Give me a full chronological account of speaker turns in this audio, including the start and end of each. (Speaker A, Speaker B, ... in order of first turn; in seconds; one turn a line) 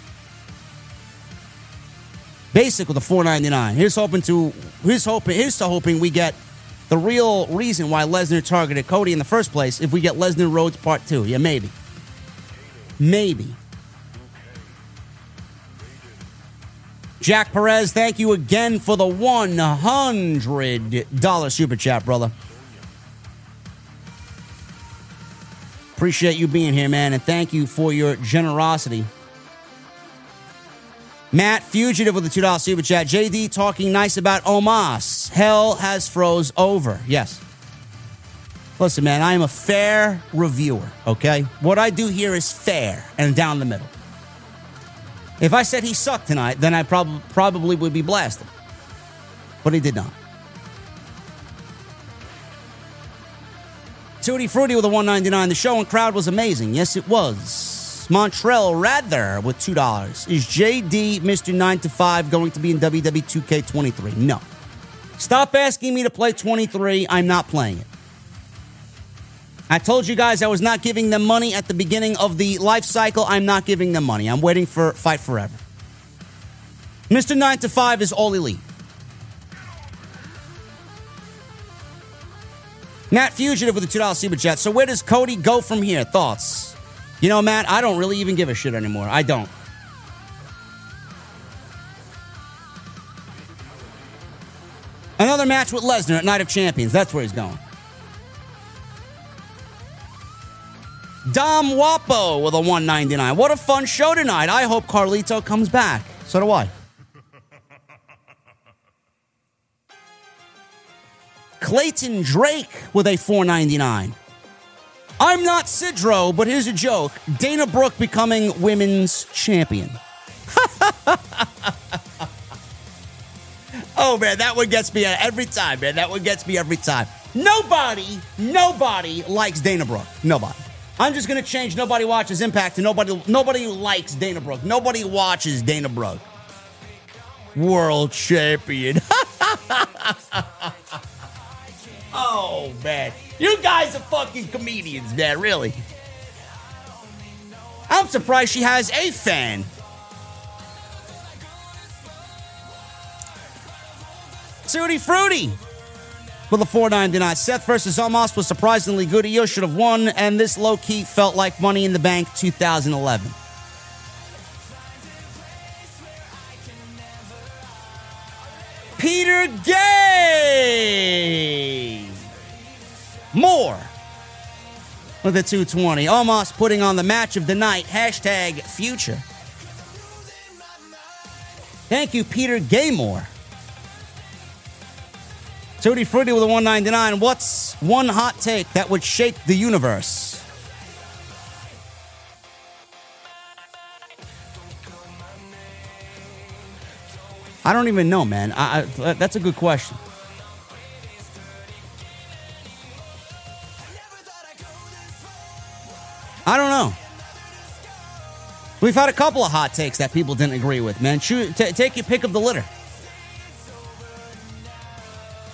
Speaker A: 2.5-6.4
Speaker A: 6.9-11.7
Speaker A: 13.0-13.6
Speaker A: 17.2-22.3
Speaker A: 25.9-29.1
Speaker A: 31.3-37.4
Speaker A: 38.8-43.9
Speaker A: 45.4-48.5
Speaker A: 49.6-50.1
Speaker A: 54.2-64.4
Speaker A: 65.2-67.9
Speaker A: 69.7-75.6
Speaker A: 77.1-78.6
Speaker A: 83.1-89.5
Speaker A: 95.2-97.6
Speaker A: 101.2-106.7
Speaker A: 111.6-114.2
Speaker A: 115.2-122.0
Speaker A: 123.9-136.2
Speaker A: 137.5-140.7
Speaker A: 142.1-145.8
Speaker A: 147.9-149.7
Speaker A: 154.6-155.6
Speaker A: 156.5-163.3
Speaker A: 168.9-172.1
Speaker A: 173.3-173.9
Speaker A: 175.2-179.2
Speaker A: 181.9-183.3
Speaker A: 185.8-190.4
Speaker A: 197.6-200.0
Speaker A: 206.4-207.0
Speaker A: 208.8-212.7